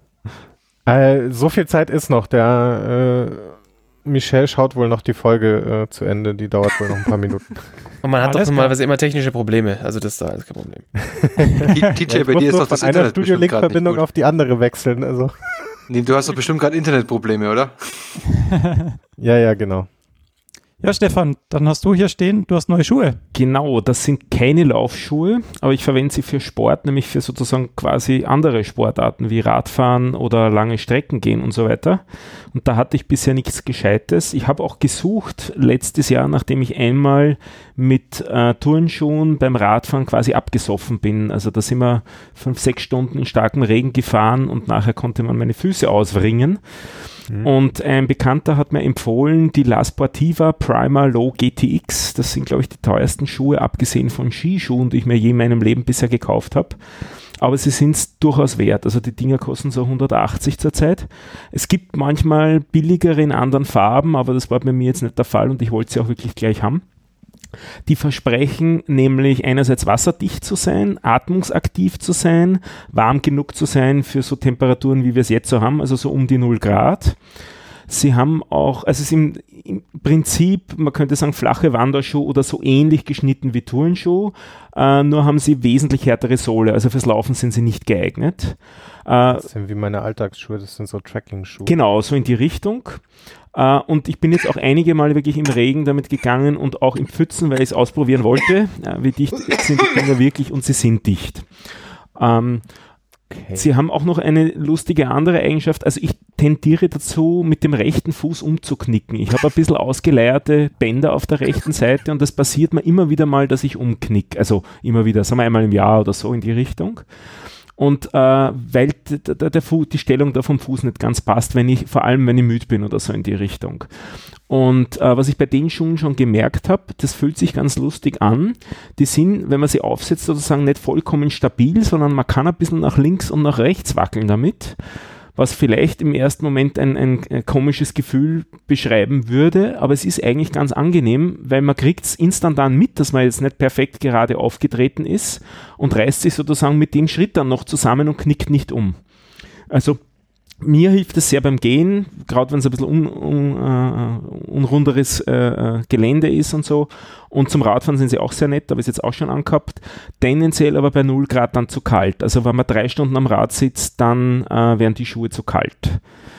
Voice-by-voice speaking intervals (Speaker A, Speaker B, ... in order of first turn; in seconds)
Speaker A: 0.8-7.7, 11.6-15.7, 19.2-19.9, 89.3-91.7, 103.3-103.6
Speaker B: 8.0-10.9
Speaker C: 8.2-8.7, 20.8-23.2
Speaker D: 11.7-14.0, 15.9-18.2
Speaker E: 23.3-66.8, 67.8-77.2, 77.9-89.5, 91.7-102.8, 103.5-117.1, 117.7-149.1, 149.7-150.0, 150.6-166.1